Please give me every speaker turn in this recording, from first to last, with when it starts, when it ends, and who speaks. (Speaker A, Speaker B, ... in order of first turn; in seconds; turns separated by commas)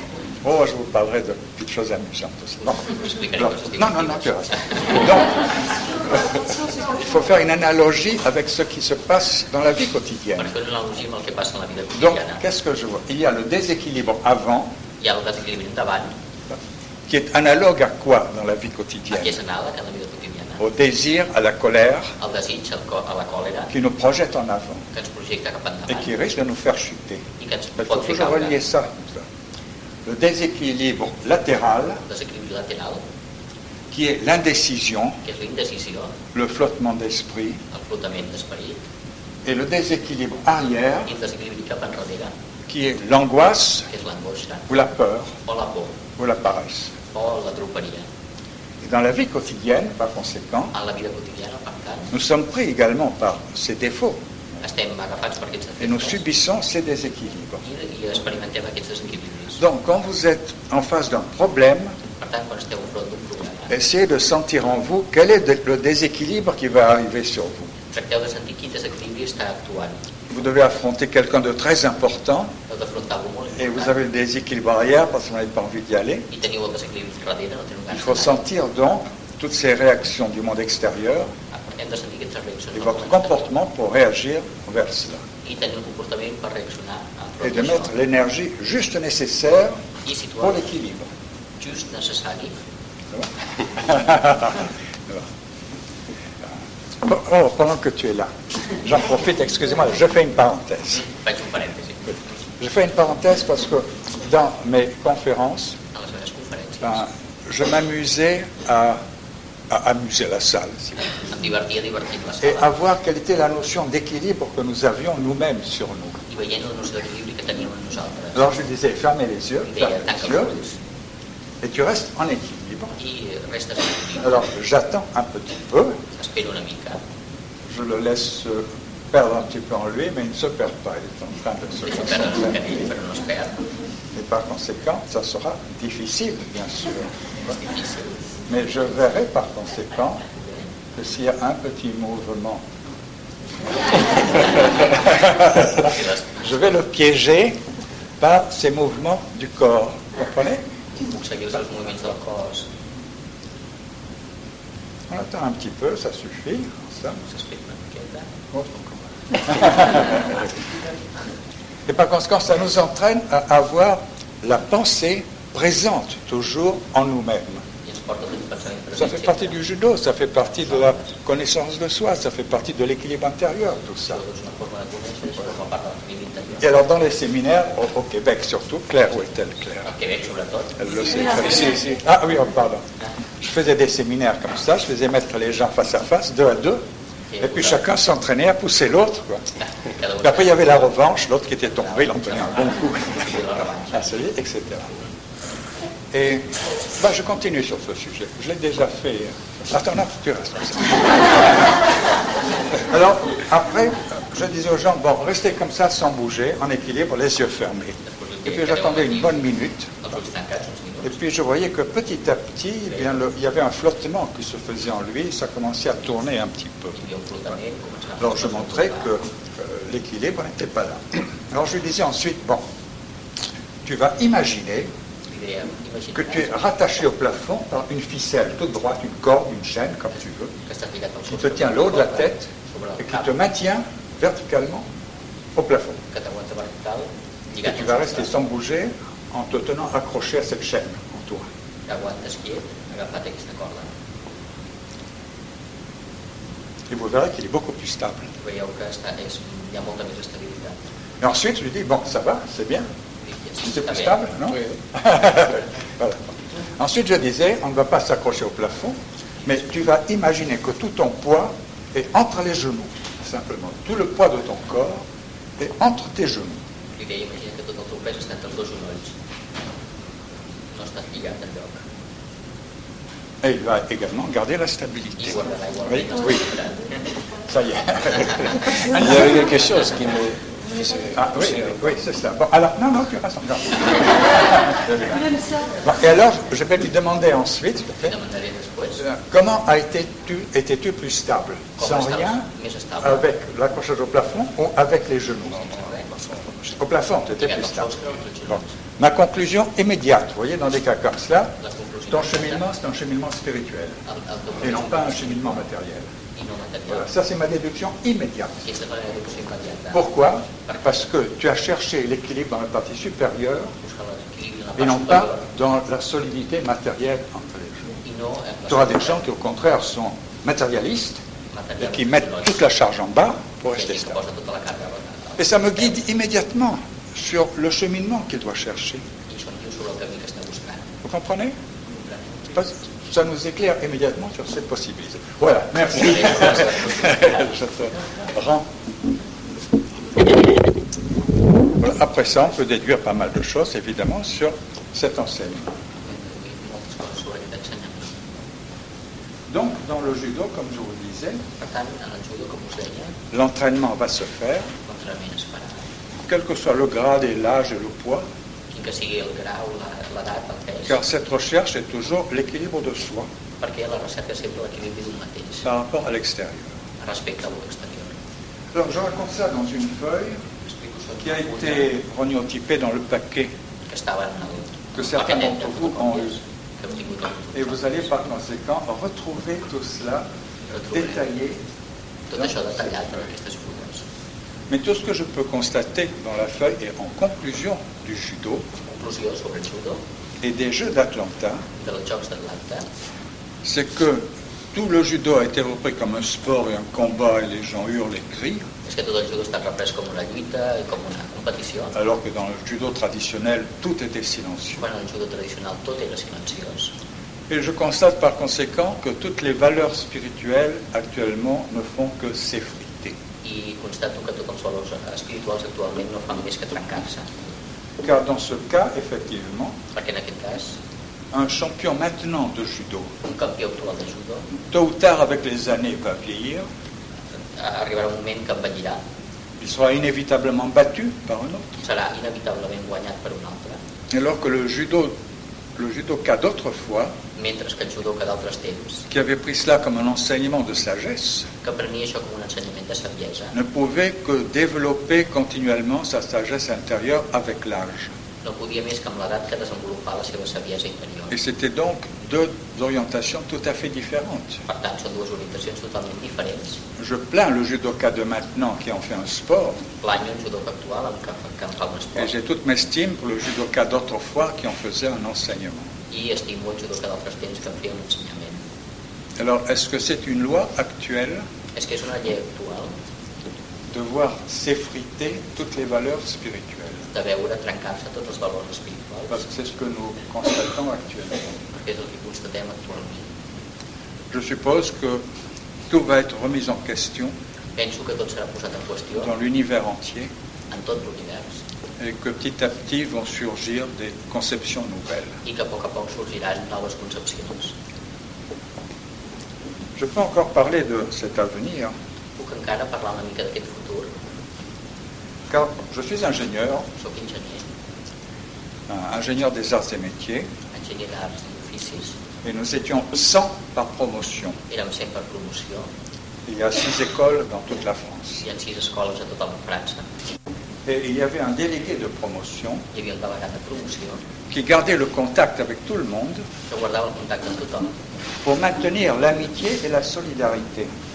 Speaker A: 0.4-5.4, Speaker B: 2.6-5.0, Speaker A: 6.1-10.5, Speaker B: 10.4-12.4, Speaker A: 11.9-14.7, Speaker B: 15.0-16.1, Speaker A: 16.5-19.4, Speaker B: 19.1-20.6, Speaker A: 20.6-22.1, Speaker B: 22.2-23.7, Speaker A: 23.7-24.8, Speaker B: 24.9-26.2, Speaker A: 25.9-27.2, Speaker B: 27.4-28.6, Speaker A: 27.8-29.2, Speaker A: 30.0-32.0, Speaker B: 32.0-33.0, Speaker A: 33.9-35.2, Speaker B: 35.2-36.1, Speaker A: 36.3-37.6, Speaker B: 37.7-38.8, Speaker A: 39.4-41.1, Speaker B: 41.0-42.3, Speaker A: 42.7-43.9, Speaker B: 43.9-44.6, Speaker A: 44.7-45.3, Speaker B: 45.5-46.0, Speaker A: 46.2-46.9, Speaker B: 47.1-48.0, Speaker A: 48.8-50.7, Speaker B: 50.7-52.1, Speaker A: 52.1-54.2, Speaker B: 54.6-56.2, Speaker A: 55.8-57.6, Speaker B: 57.6-59.6, Speaker A: 59.6-61.9, Speaker B: 62.2-63.7, Speaker A: 63.7-67.7, Speaker B: 67.9-70.0, Speaker A: 70.3-72.5, Speaker B: 72.7-73.9, Speaker A: 73.6-76.2, Speaker B: 76.3-78.4, Speaker A: 77.9-81.3, Speaker B: 81.5-83.5, Speaker A: 82.7-85.2, Speaker B: 85.4-87.9, Speaker A: 87.4-89.8, Speaker B: 90.0-90.7, Speaker A: 90.4-91.1, Speaker B: 91.6-92.5, Speaker A: 93.1-95.3, Speaker A: 96.4-101.0, Speaker B: 101.0-102.0, Speaker A: 102.6-105.8, Speaker B: 105.9-107.0, Speaker A: 106.8-109.0, Speaker A: 109.7-111.0, Speaker B: 111.3-112.7, Speaker A: 112.4-116.2, Speaker B: 116.3-118.4, Speaker A: 118.3-120.5, Speaker B: 119.7-120.8, Speaker A: 121.6-122.9, Speaker B: 123.0-124.3, Speaker A: 124.2-126.0, Speaker B: 126.2-127.0, Speaker A: 127.7-132.7, Speaker B: 131.8-133.6, Speaker A: 134.1-137.1, Speaker B: 137.5-138.1, Speaker A: 138.5-140.2, Speaker A: 140.9-142.6, Speaker A: 144.3-147.6, Speaker B: 145.8-146.5, Speaker A: 148.2-150.6, Speaker B: 151.0-152.7, Speaker A: 155.1-157.2, Speaker B: 157.2-158.3, Speaker A: 158.5-160.3, Speaker A: 161.9-167.6, Speaker B: 167.8-169.5, Speaker A: 168.9-174.2, Speaker B: 174.1-176.7, Speaker A: 176.6-179.9, Speaker B: 179.8-180.8, Speaker A: 180.8-182.8, Speaker A: 183.4-186.8, Speaker B: 187.3-187.8, Speaker A: 187.4-189.4, Speaker B: 189.8-190.5, Speaker A: 190.2-193.3, Speaker B: 191.8-194.1, Speaker A: 193.9-194.9, Speaker A: 196.1-201.7, Speaker A: 202.8-210.0, Speaker B: 208.1-209.4, Speaker B: 210.0-211.1, Speaker A: 211.0-216.9, Speaker B: 216.9-219.1, Speaker A: 218.2-222.6, Speaker A: 223.8-224.9, Speaker B: 225.3-226.6, Speaker A: 226.1-230.5, Speaker B: 230.7-233.3, Speaker A: 231.3-232.5, Speaker A: 233.0-234.8, Speaker A: 235.6-236.0, Speaker B: 236.1-238.3, Speaker A: 237.6-241.5, Speaker B: 241.9-243.9, Speaker A: 246.9-248.3, Speaker B: 248.4-250.8, Speaker A: 251.2-252.8, Speaker B: 253.2-254.2, Speaker A: 253.6-256.2, Speaker A: 256.8-265.0, Speaker A: 265.6-266.6, Speaker B: 266.9-269.1, Speaker B: 270.7-271.8, Speaker A: 273.4-276.4, Speaker B: 275.2-276.8, Speaker A: 277.5-279.3, Speaker C: 278.9-281.7, Speaker A: 281.1-288.1, Speaker B: 288.0-289.0, Speaker A: 289.0-292.4, Speaker B: 291.8-293.2, Speaker A: 293.0-295.8, Speaker B: 295.8-296.1, Speaker A: 296.6-297.9, Speaker B: 297.4-298.7, Speaker A: 298.5-301.6, Speaker B: 301.6-302.6, Speaker A: 302.1-304.0, Speaker B: 304.1-305.6, Speaker A: 304.6-306.1, Speaker B: 306.3-307.1, Speaker A: 306.9-308.6, Speaker B: 308.6-310.1, Speaker A: 309.9-313.7, Speaker B: 313.8-315.4, Speaker A: 314.8-317.9, Speaker B: 318.0-319.2, Speaker A: 318.7-321.2, Speaker B: 321.5-322.6, Speaker A: 321.8-324.2, Speaker B: 323.7-325.9, Speaker A: 325.4-329.0, Speaker B: 329.3-330.8, Speaker A: 331.0-331.5, Speaker A: 332.5-338.6, Speaker B: 336.0-337.4, Speaker A: 341.8-345.7, Speaker B: 346.0-348.2, Speaker A: 349.5-351.4, Speaker B: 351.6-353.1, Speaker A: 353.3-354.7, Speaker B: 354.9-355.8, Speaker A: 356.2-358.2, Speaker B: 358.7-361.0, Speaker A: 360.9-363.3, Speaker B: 363.6-365.6, Speaker A: 365.6-366.7, Speaker B: 367.0-368.1, Speaker A: 368.7-370.4, Speaker B: 370.6-371.9, Speaker A: 371.2-373.5, Speaker B: 373.9-378.1, Speaker A: 374.9-376.4, Speaker A: 377.5-380.3, Speaker B: 380.7-381.2, Speaker A: 380.9-381.6, Speaker B: 382.3-384.0, Speaker A: 384.7-388.6, Speaker B: 388.9-390.0, Speaker A: 390.4-391.6, Speaker B: 391.8-392.9, Speaker A: 393.6-398.6, Speaker B: 398.9-401.9, Speaker A: 401.9-404.8, Speaker B: 404.8-406.9, Speaker A: 407.5-413.1, Speaker B: 413.4-417.3, Speaker A: 418.0-419.8, Speaker B: 419.9-420.8, Speaker A: 421.3-423.1, Speaker B: 423.2-424.4, Speaker A: 424.7-426.6, Speaker B: 427.6-429.0, Speaker A: 429.6-431.8, Speaker B: 431.8-433.8, Speaker A: 434.1-435.1, Speaker A: 435.8-437.1, Speaker B: 437.4-439.0, Speaker A: 439.1-441.5, Speaker B: 441.6-443.5, Speaker A: 443.5-448.1, Speaker B: 448.4-451.3, Speaker A: 451.3-454.6, Speaker B: 454.7-456.8, Speaker A: 457.0-459.8, Speaker B: 460.0-462.3, Speaker A: 462.1-465.9, Speaker B: 466.1-468.6, Speaker A: 469.4-471.4, Speaker B: 471.8-472.9, Speaker A: 473.9-477.0, Speaker B: 477.1-479.4, Speaker A: 479.3-481.6, Speaker B: 481.8-483.3, Speaker A: 484.3-485.2, Speaker A: 485.9-487.3, Speaker B: 487.8-489.3, Speaker A: 489.2-490.3, Speaker B: 490.7-491.6, Speaker A: 492.0-495.3, Speaker B: 495.4-497.7, Speaker A: 499.9-501.9, Speaker B: 502.4-504.1, Speaker A: 505.5-506.9, Speaker B: 507.0-507.6, Speaker A: 508.9-510.5, Speaker B: 510.7-512.1, Speaker A: 512.4-514.6, Speaker B: 514.7-515.9, Speaker A: 516.5-518.4, Speaker B: 518.4-520.0, Speaker A: 520.9-522.8, Speaker B: 522.9-524.2, Speaker A: 524.5-526.4, Speaker B: 526.7-527.9, Speaker A: 528.4-530.9